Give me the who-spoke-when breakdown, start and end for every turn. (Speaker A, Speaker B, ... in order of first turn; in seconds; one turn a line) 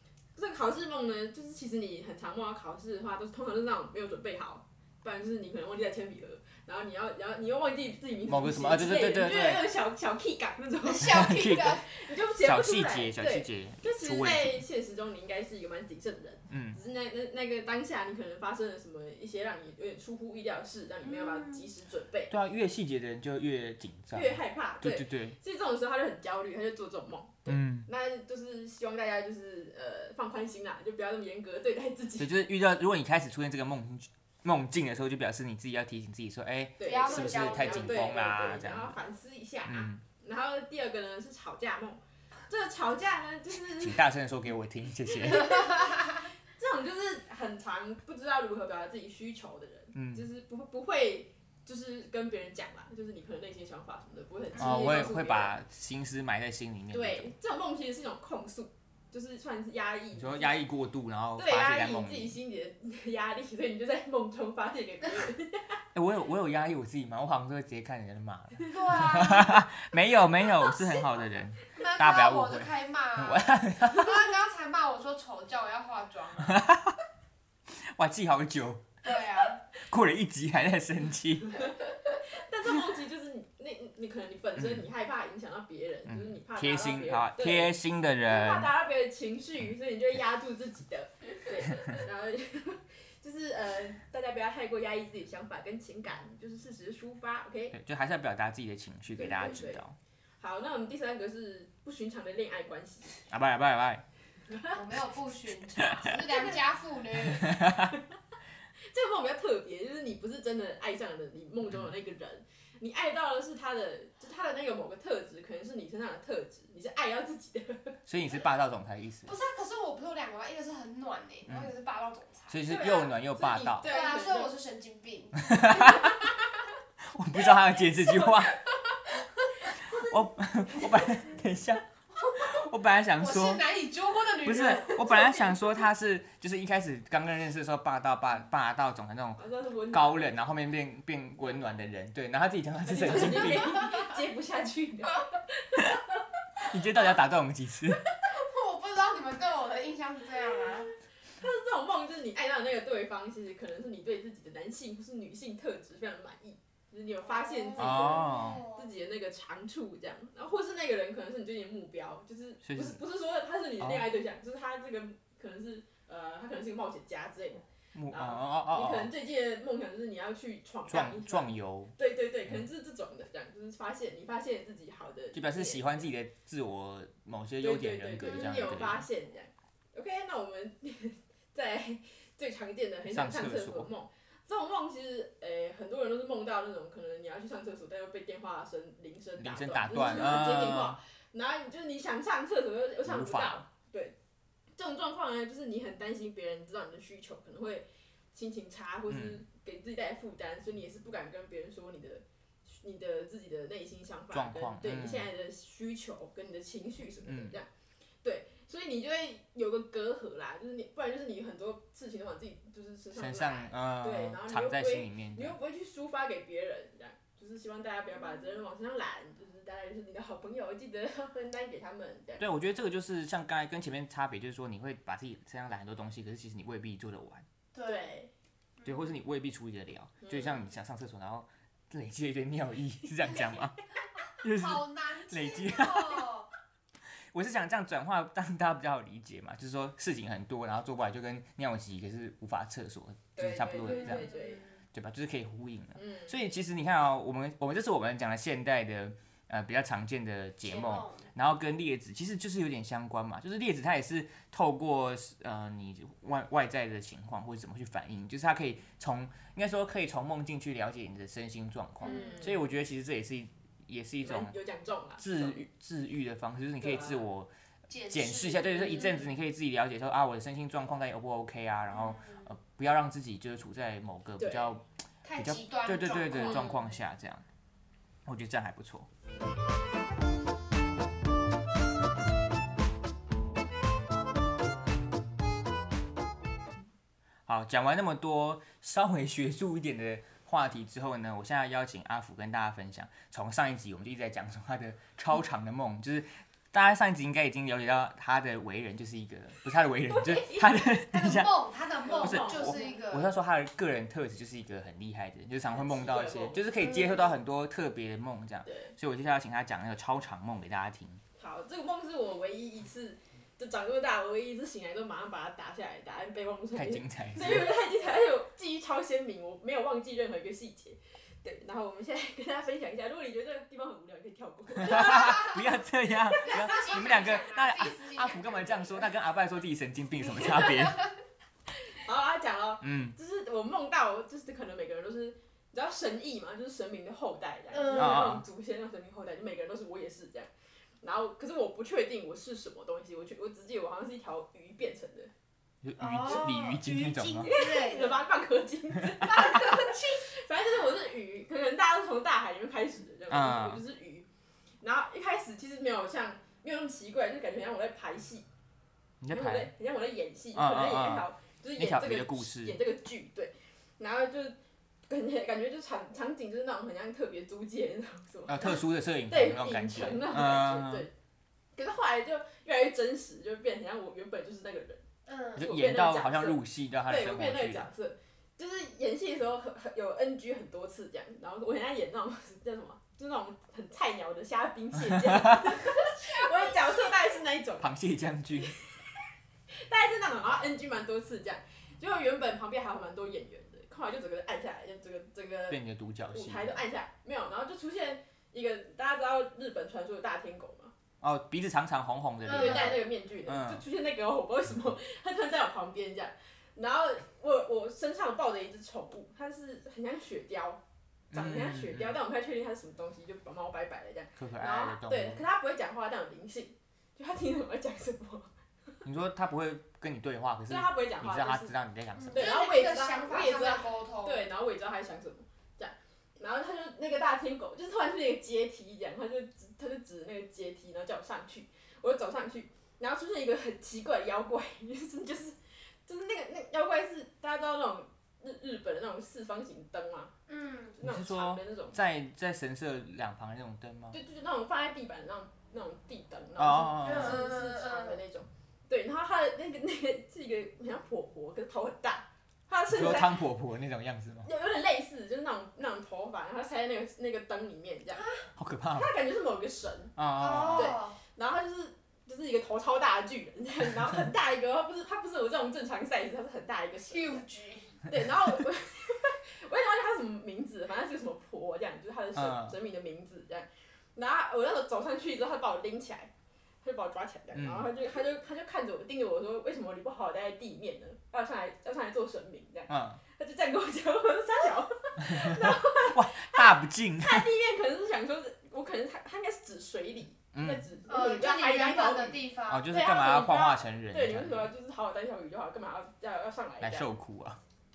Speaker A: 0.3-22.3
Speaker B: 8.3-9.7
Speaker C: 10.8-11.8
Speaker B: 11.0-11.9
Speaker B: 12.4-14.6
Speaker B: 16.5-16.8
Speaker C: 21.0-21.6
Speaker B: 22.3-25.4
Speaker A: 24.1-32.3
Speaker B: 27.5-27.9
Speaker B: 32.2-39.0
Speaker A: 36.8-44.0
Speaker C: 36.8-38.1
Speaker B: 39.6-40.0
Speaker B: 43.5-45.7
Speaker A: 45.2-55.5
Speaker B: 49.9-50.2
Speaker B: 54.5-57.3
Speaker A: 56.9-60.6
Speaker B: 60.1-62.4
Speaker A: 61.4-65.8
Speaker B: 65.9-74.2
Speaker C: 68.7-69.5
Speaker C: 71.7-76.6
Speaker B: 76.4-76.9
Speaker B: 77.9-78.9
Speaker C: 79.0-79.6
Speaker B: 79.8-81.7
Speaker A: 81.6-97.8
Speaker B: 84.6-84.8
Speaker B: 86.1-88.7
Speaker B: 97.7-99.9
Speaker A: 99.1-99.8
Speaker A: 100.4-103.3
Speaker B: 103.3-104.0
Speaker A: 104.5-104.8
Speaker C: 104.7-107.6
Speaker B: 105.8-106.1
Speaker A: 106.2-106.6
Speaker B: 107.4-107.9
Speaker A: 108.9-118.0
Speaker B: 118.0-119.3
Speaker C: 119.2-122.8
Speaker B: 121.5-121.7
Speaker B: 122.5-123.9
Speaker A: 122.6-124.5
Speaker C: 123.8-126.2
Speaker B: 125.4-126.2
Speaker B: 127.1-128.6
Speaker B: 129.7-133.7
Speaker C: 132.2-132.5
Speaker C: 133.2-135.4
Speaker B: 134.4-143.8
Speaker A: 139.4-140.2
Speaker A: 142.8-146.2
Speaker B: 146.6-148.0
Speaker C: 148.2-150.9
Speaker A: 151.4-176.0
Speaker C: 157.2-158.9
Speaker B: 157.8-158.6
Speaker B: 162.6-163.0
Speaker B: 167.9-169.1
Speaker B: 170.9-171.9
Speaker B: 175.3-179.1
Speaker A: 177.6-194.1
Speaker B: 183.1-183.9
Speaker B: 189.4-191.0
Speaker B: 193.0-193.6
Speaker A: 194.8-207.7
Speaker B: 199.1-199.4
Speaker B: 204.3-205.3
Speaker B: 207.2-207.6
Speaker A: 208.2-222.4
Speaker B: 213.1-215.5
Speaker B: 222.4-227.4
Speaker C: 227.7-228.2
Speaker A: 227.8-228.3
Speaker C: 228.8-229.1
Speaker B: 228.8-233.8
Speaker A: 230.2-230.6
Speaker B: 234.4-236.3
Speaker C: 234.4-236.5
Speaker B: 237.3-244.3
Speaker A: 243.4-244.6
Speaker C: 243.8-244.8
Speaker B: 244.9-264.5
Speaker A: 245.9-246.3
Speaker C: 250.6-251.3
Speaker C: 262.0-262.5
Speaker A: 262.0-262.5
Speaker A: 264.2-265.6
Speaker B: 265.2-267.5
Speaker A: 266.8-267.3
Speaker C: 267.9-269.2
Speaker B: 268.1-274.8
Speaker C: 271.9-272.5
Speaker A: 274.4-274.7
Speaker C: 275.2-276.9
Speaker B: 275.4-277.4
Speaker A: 276.3-276.7
Speaker B: 278.2-279.1
Speaker B: 287.5-311.2
Speaker C: 301.1-303.3
Speaker A: 302.0-303.0
Speaker A: 305.6-307.0
Speaker C: 306.8-307.2
Speaker A: 308.6-308.9
Speaker A: 311.4-325.6
Speaker B: 316.7-317.7
Speaker B: 324.8-331.1
Speaker C: 324.9-325.6
Speaker C: 326.4-329.1
Speaker A: 331.8-340.5
Speaker B: 332.8-333.1
Speaker C: 337.7-338.3
Speaker B: 337.9-338.4
Speaker A: 341.0-345.3
Speaker B: 345.8-347.5
Speaker C: 346.0-348.2
Speaker A: 347.4-354.2
Speaker C: 349.3-350.3
Speaker B: 353.3-353.8
Speaker A: 354.8-358.4
Speaker B: 359.2-359.7
Speaker A: 359.3-364.6
Speaker B: 360.5-362.8
Speaker A: 365.1-371.1
Speaker B: 368.5-371.1
Speaker A: 371.7-387.9
Speaker C: 375.2-375.6
Speaker B: 375.6-377.9
Speaker B: 387.8-388.8
Speaker A: 388.5-395.8
Speaker B: 395.7-396.8
Speaker A: 396.3-400.9
Speaker B: 401.2-403.8
Speaker C: 402.4-403.0
Speaker A: 402.5-410.8
Speaker B: 411.3-412.2
Speaker A: 411.3-418.5
Speaker B: 414.4-415.4
Speaker B: 419.0-422.5
Speaker A: 420.7-421.7
Speaker C: 422.1-424.5
Speaker A: 422.3-440.3
Speaker C: 440.5-441.0
Speaker A: 441.0-441.9
Speaker B: 441.0-444.2
Speaker A: 444.1-453.4
Speaker B: 446.6-447.4
Speaker C: 447.0-448.2
Speaker B: 452.9-454.5
Speaker A: 454.4-458.3
Speaker C: 458.1-458.4
Speaker B: 458.6-459.1
Speaker A: 458.9-467.4
Speaker B: 460.1-461.0
Speaker C: 460.4-461.2
Speaker C: 467.1-468.1
Speaker A: 468.1-476.3
Speaker B: 472.3-472.8
Speaker A: 476.8-497.1
Speaker B: 477.5-477.9
Speaker B: 482.9-483.2
Speaker B: 485.2-487.5
Speaker B: 490.5-490.9
Speaker C: 491.1-492.9
Speaker B: 492.7-494.7
Speaker B: 496.8-497.6